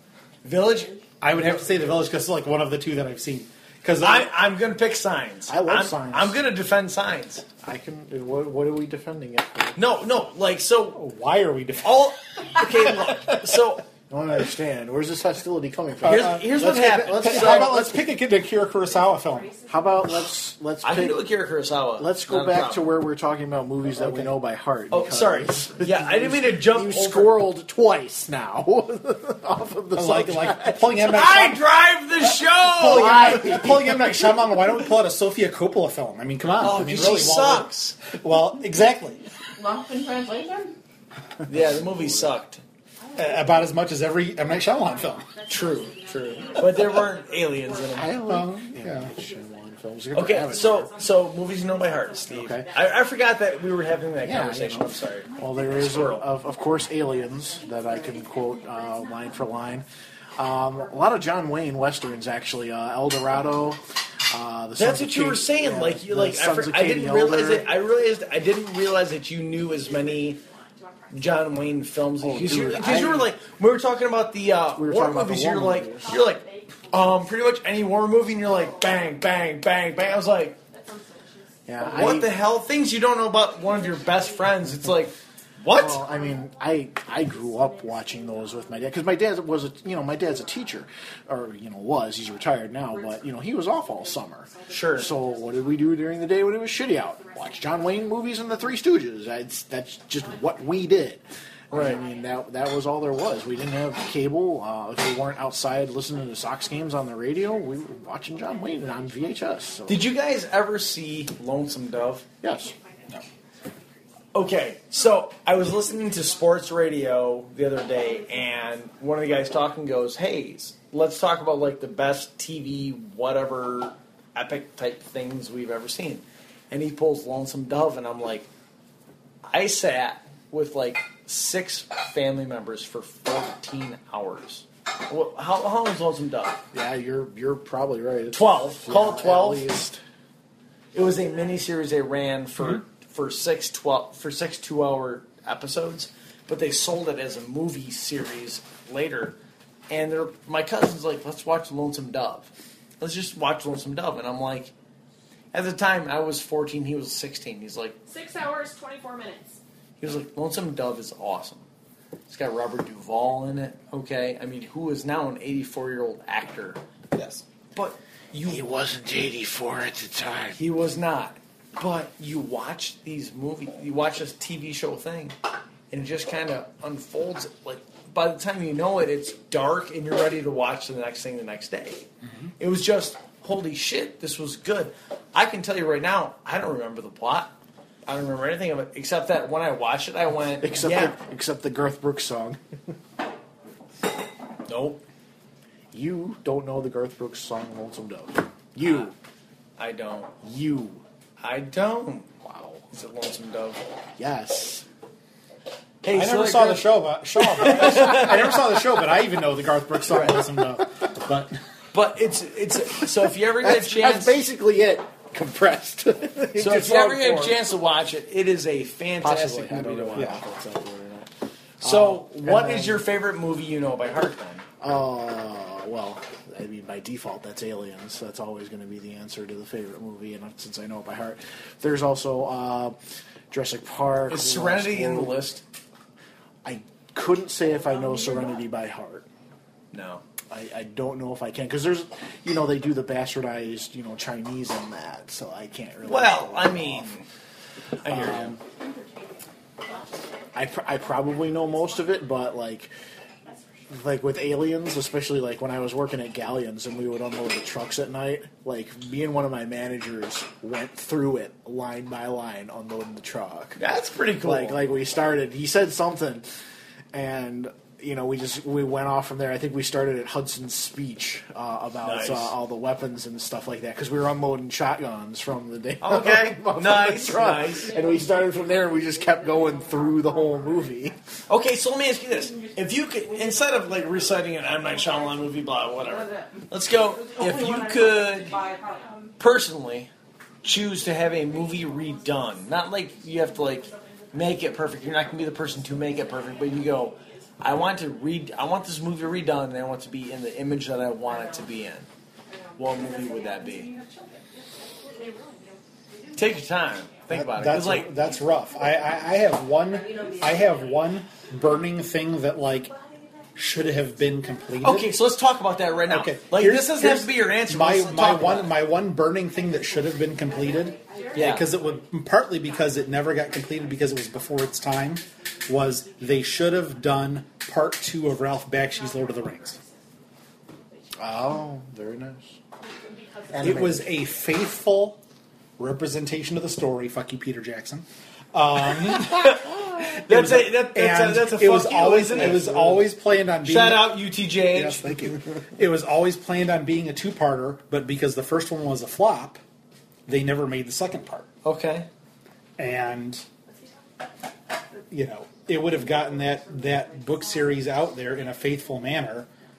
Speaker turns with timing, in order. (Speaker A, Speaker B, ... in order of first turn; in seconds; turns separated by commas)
Speaker A: 0.4-1.0, Speaker B: 1.2-4.3, Speaker A: 4.0-7.5, Speaker C: 5.5-6.4, Speaker C: 7.6-9.8, Speaker A: 9.8-11.0, Speaker B: 10.9-12.0, Speaker A: 11.8-13.8, Speaker C: 14.1-16.5, Speaker A: 16.0-18.0, Speaker B: 16.0-19.6, Speaker C: 17.3-17.6, Speaker D: 18.8-20.1, Speaker C: 19.7-21.3, Speaker A: 20.8-22.9, Speaker C: 22.0-31.1, Speaker B: 24.0-24.3, Speaker A: 24.9-27.4, Speaker B: 29.9-31.6, Speaker A: 31.0-33.8, Speaker B: 32.8-39.2, Speaker C: 32.8-34.3, Speaker A: 36.6-38.0, Speaker E: 39.6-40.8, Speaker A: 41.5-42.6, Speaker C: 41.6-42.0, Speaker B: 43.2-45.3, Speaker D: 44.4-48.2, Speaker A: 45.5-48.2, Speaker C: 48.0-50.9, Speaker B: 48.2-49.1, Speaker D: 49.2-49.4, Speaker A: 50.1-56.3, Speaker D: 50.4-54.1, Speaker C: 52.3-52.7, Speaker C: 54.2-67.7, Speaker D: 55.2-59.8, Speaker E: 57.0-58.7, Speaker D: 60.7-61.2, Speaker A: 64.8-70.4, Speaker D: 67.1-71.9, Speaker A: 71.1-80.6, Speaker C: 72.2-73.3, Speaker C: 74.8-76.1, Speaker D: 76.0-79.5, Speaker D: 80.0-82.4, Speaker C: 81.7-82.3, Speaker A: 81.8-86.0, Speaker D: 83.4-84.9, Speaker C: 85.7-101.2, Speaker D: 86.1-89.4, Speaker D: 90.1-90.8, Speaker D: 92.9-99.0, Speaker A: 94.7-95.1, Speaker D: 100.2-104.0, Speaker A: 101.7-102.0, Speaker C: 101.7-110.1, Speaker D: 106.1-110.1, Speaker A: 109.9-112.2, Speaker D: 112.4-116.8, Speaker C: 112.4-112.7, Speaker A: 114.3-128.5, Speaker D: 117.8-118.7, Speaker A: 129.4-136.6, Speaker C: 136.7-140.0, Speaker A: 138.3-139.7, Speaker A: 140.9-149.4, Speaker A: 149.9-154.7, Speaker A: 155.5-158.0, Speaker D: 158.1-159.6, Speaker A: 160.0-161.7, Speaker A: 162.3-166.8, Speaker B: 167.1-167.4, Speaker A: 167.7-168.7, Speaker C: 168.5-170.6, Speaker A: 170.6-175.3, Speaker A: 175.9-182.1, Speaker A: 182.6-187.5, Speaker A: 188.1-191.2, Speaker C: 190.6-192.6, Speaker A: 194.7-195.0, Speaker C: 195.9-199.2, Speaker A: 198.8-199.1, Speaker A: 199.8-200.3, Speaker C: 200.4-201.0, Speaker A: 201.4-202.3, Speaker C: 202.4-202.8, Speaker A: 202.9-203.8, Speaker C: 204.2-204.8, Speaker A: 206.0-208.5, Speaker B: 206.1-211.6, Speaker C: 210.1-210.4, Speaker A: 211.9-214.4, Speaker C: 213.6-217.6, Speaker A: 216.6-220.3, Speaker C: 219.2-221.3, Speaker C: 221.8-223.1, Speaker A: 221.8-224.7, Speaker C: 224.8-233.0, Speaker C: 233.5-235.4, Speaker A: 234.3-235.6, Speaker C: 236.6-239.3, Speaker A: 239.9-240.2, Speaker C: 240.5-247.1, Speaker A: 246.1-247.3, Speaker A: 248.0-248.6, Speaker C: 248.1-248.6, Speaker D: 248.8-249.3, Speaker D: 249.8-252.5, Speaker C: 250.5-252.9, Speaker C: 253.9-263.8, Speaker A: 263.8-264.8, Speaker C: 264.4-266.5, Speaker C: 267.1-281.2, Speaker A: 272.0-272.6, Speaker A: 276.0-277.9, Speaker E: 277.9-280.9, Speaker A: 281.5-288.6, Speaker D: 282.3-285.6, Speaker E: 286.0-289.4, Speaker D: 288.0-289.4, Speaker A: 289.4-290.1, Speaker A: 290.6-302.1, Speaker D: 290.9-298.1, Speaker E: 301.3-301.7, Speaker E: 302.5-304.1, Speaker A: 302.8-303.9, Speaker D: 302.9-307.1, Speaker E: 304.6-305.4, Speaker A: 306.4-308.1, Speaker B: 307.3-312.9, Speaker D: 308.1-309.4, Speaker E: 309.9-311.1, Speaker D: 312.9-313.2, Speaker B: 313.6-315.1, Speaker A: 314.8-318.9, Speaker B: 316.1-329.8, Speaker E: 319.5-322.1, Speaker D: 320.4-321.8, Speaker A: 321.4-321.7, Speaker E: 322.6-324.1, Speaker D: 324.9-327.1, Speaker E: 325.2-326.7, Speaker D: 328.6-330.1, Speaker D: 330.9-331.5, Speaker C: 331.2-332.6, Speaker D: 332.8-334.3, Speaker C: 333.5-334.1, Speaker B: 333.6-335.2, Speaker B: 335.8-349.6, Speaker A: 339.1-343.0, Speaker C: 342.4-342.9, Speaker A: 343.6-345.2, Speaker B: 350.3-351.5, Speaker A: 351.6-352.1, Speaker B: 352.8-353.4, Speaker B: 355.1-359.5, Speaker E: 356.1-357.8